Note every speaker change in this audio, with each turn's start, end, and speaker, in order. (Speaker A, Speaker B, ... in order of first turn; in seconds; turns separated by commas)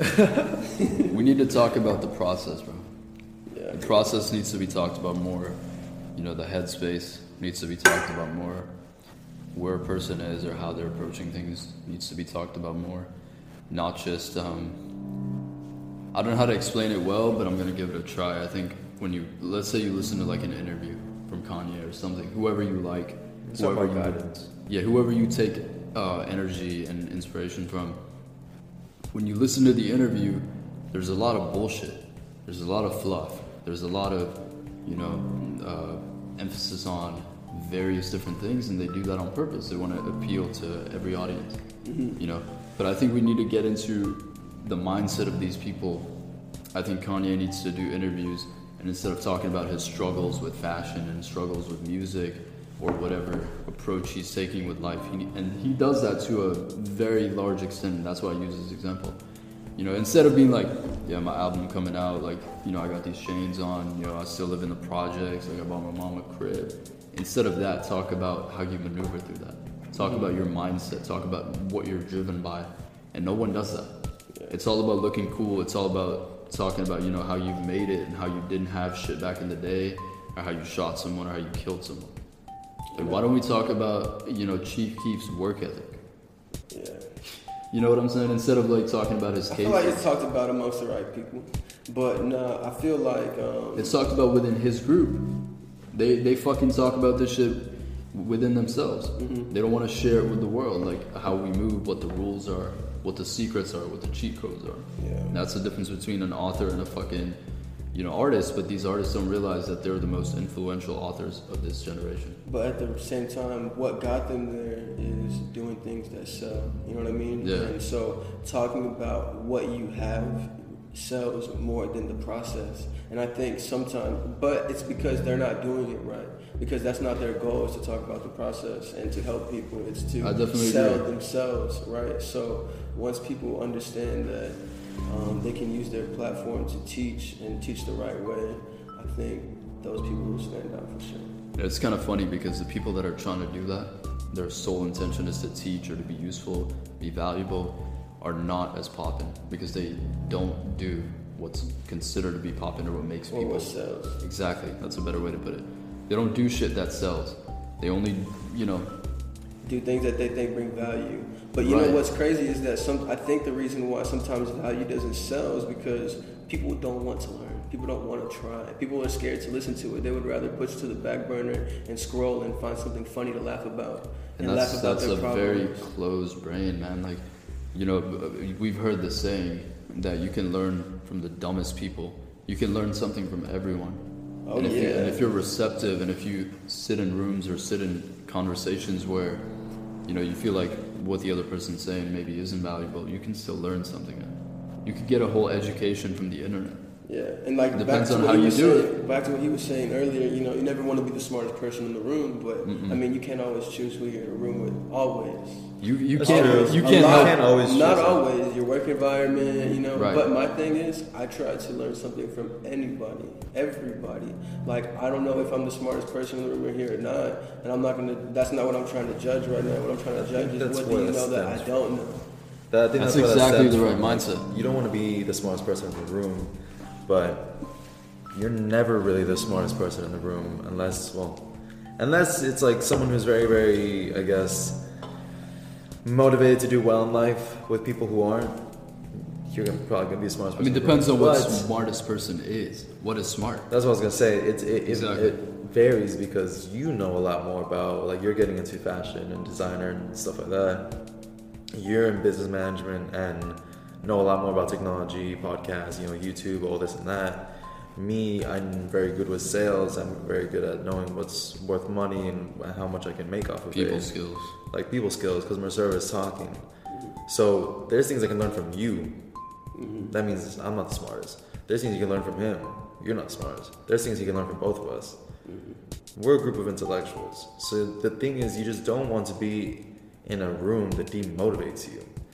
Speaker A: 0.8-1.1, Speaker B: 1.0-2.9, Speaker A: 3.5-4.0, Speaker B: 3.7-5.6, Speaker B: 6.1-8.7, Speaker B: 9.5-13.1, Speaker B: 13.7-14.8, Speaker B: 16.1-28.0, Speaker C: 23.4-24.5, Speaker B: 29.1-41.6, Speaker A: 41.8-42.2, Speaker B: 42.2-46.1, Speaker B: 46.7-59.2, Speaker B: 59.8-73.9, Speaker A: 70.0-70.3, Speaker B: 74.5-82.1, Speaker A: 82.9-83.2, Speaker B: 83.0-86.0, Speaker A: 86.7-87.2, Speaker B: 87.7-90.1, Speaker A: 89.5-94.0, Speaker B: 93.8-95.2, Speaker B: 95.9-107.4, Speaker A: 99.2-99.5, Speaker A: 105.0-105.3, Speaker B: 107.9-112.4, Speaker A: 112.4-141.3, Speaker B: 117.4-117.8, Speaker B: 130.2-131.0, Speaker B: 141.5-158.9, Speaker A: 153.3-154.2, Speaker A: 159.6-175.9, Speaker B: 161.6-162.0, Speaker B: 174.4-184.0, Speaker A: 184.4-185.3, Speaker B: 184.5-189.4, Speaker B: 190.1-196.8, Speaker A: 197.0-222.2, Speaker B: 197.7-198.9, Speaker B: 202.6-203.0, Speaker B: 205.8-207.4, Speaker C: 206.2-208.2, Speaker B: 209.9-210.3, Speaker C: 220.1-221.9, Speaker C: 222.7-226.5, Speaker B: 223.0-224.5, Speaker C: 227.0-227.5, Speaker C: 228.3-234.8, Speaker C: 236.0-238.6, Speaker C: 239.1-241.7, Speaker B: 240.6-243.7, Speaker C: 243.7-250.9, Speaker B: 244.8-245.4, Speaker C: 251.7-266.6, Speaker B: 263.7-264.6, Speaker A: 266.9-267.2, Speaker C: 267.3-269.2, Speaker A: 269.7-270.1, Speaker C: 270.1-275.2, Speaker A: 275.4-275.8, Speaker C: 276.1-282.1